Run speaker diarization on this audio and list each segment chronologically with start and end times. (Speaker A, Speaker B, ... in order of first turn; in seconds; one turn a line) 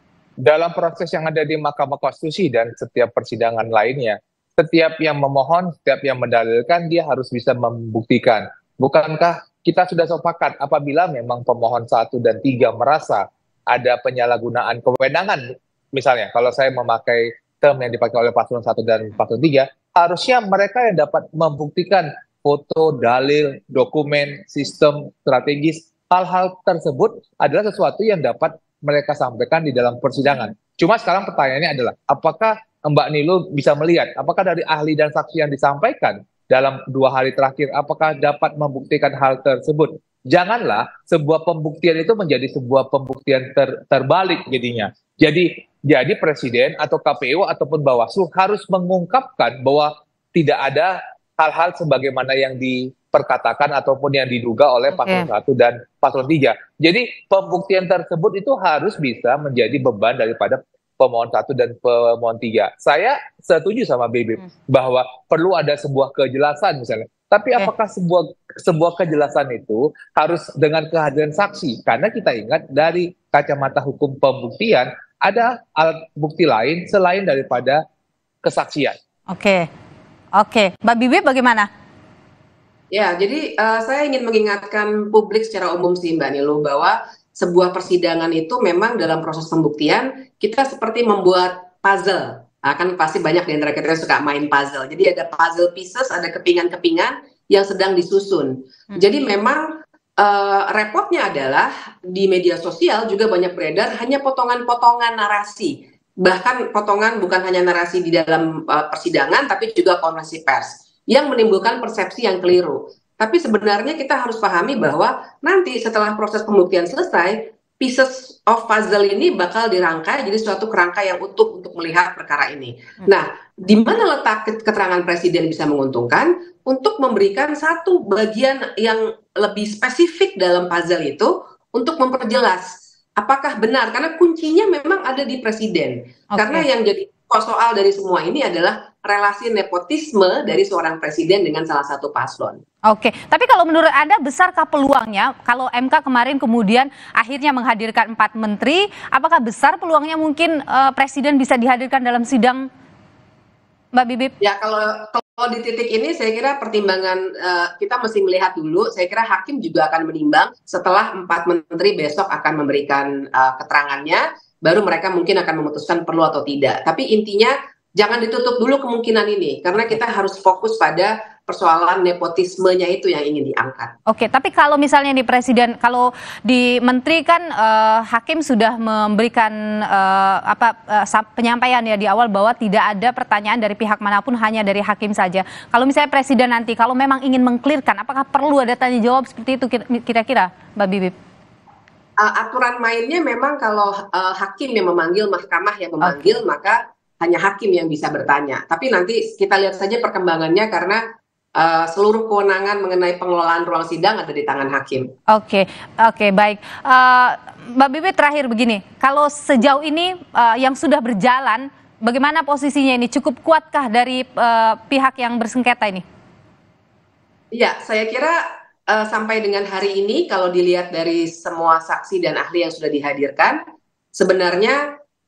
Speaker A: 0.4-77.8
Speaker B: 54.9-55.3
Speaker A: 78.4-78.9
Speaker B: 79.3-79.7
Speaker B: 80.3-81.7
Speaker C: 82.9-99.7
Speaker C: 100.2-142.6
Speaker B: 136.3-136.7
Speaker B: 142.9-152.7
Speaker B: 153.9-154.3
Speaker C: 154.4-173.9
Speaker B: 174.1-191.1
Speaker C: 192.2-201.0
Speaker B: 196.0-196.4
Speaker C: 201.6-205.1
Speaker B: 205.3-216.0
Speaker C: 217.5-223.6
Speaker C: 224.2-224.8